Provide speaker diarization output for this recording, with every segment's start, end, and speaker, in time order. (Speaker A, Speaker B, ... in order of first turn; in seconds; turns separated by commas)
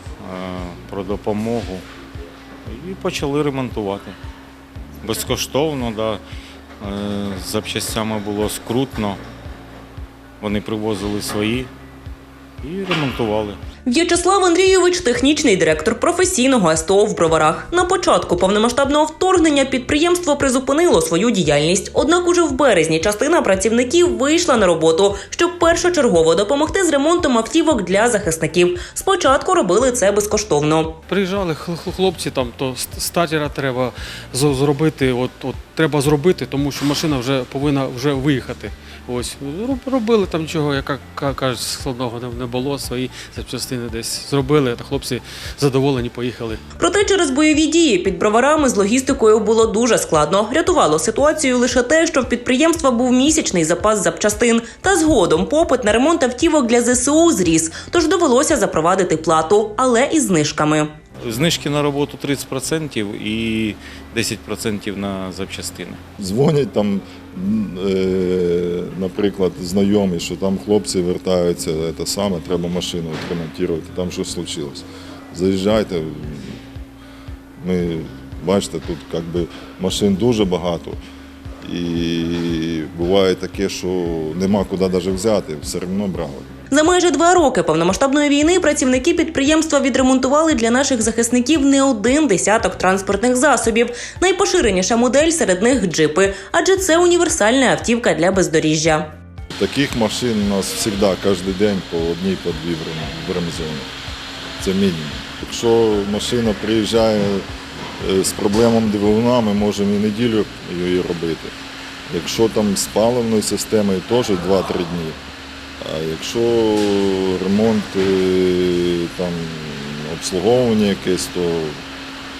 Speaker A: 0.2-1.8, Speaker A: 2.6-4.2, Speaker A: 5.0-6.2, Speaker A: 6.8-9.2, Speaker A: 10.4-11.7, Speaker A: 12.6-13.6, Speaker B: 13.8-31.0, Speaker C: 31.1-46.6, Speaker B: 46.8-60.9, Speaker A: 61.2-66.0, Speaker D: 66.2-76.6, Speaker D: 77.6-81.0, Speaker D: 81.6-86.5, Speaker B: 86.7-99.1, Speaker D: 99.5-103.9, Speaker D: 104.6-107.4, Speaker D: 108.0-111.5, Speaker D: 112.1-115.2, Speaker D: 115.8-121.8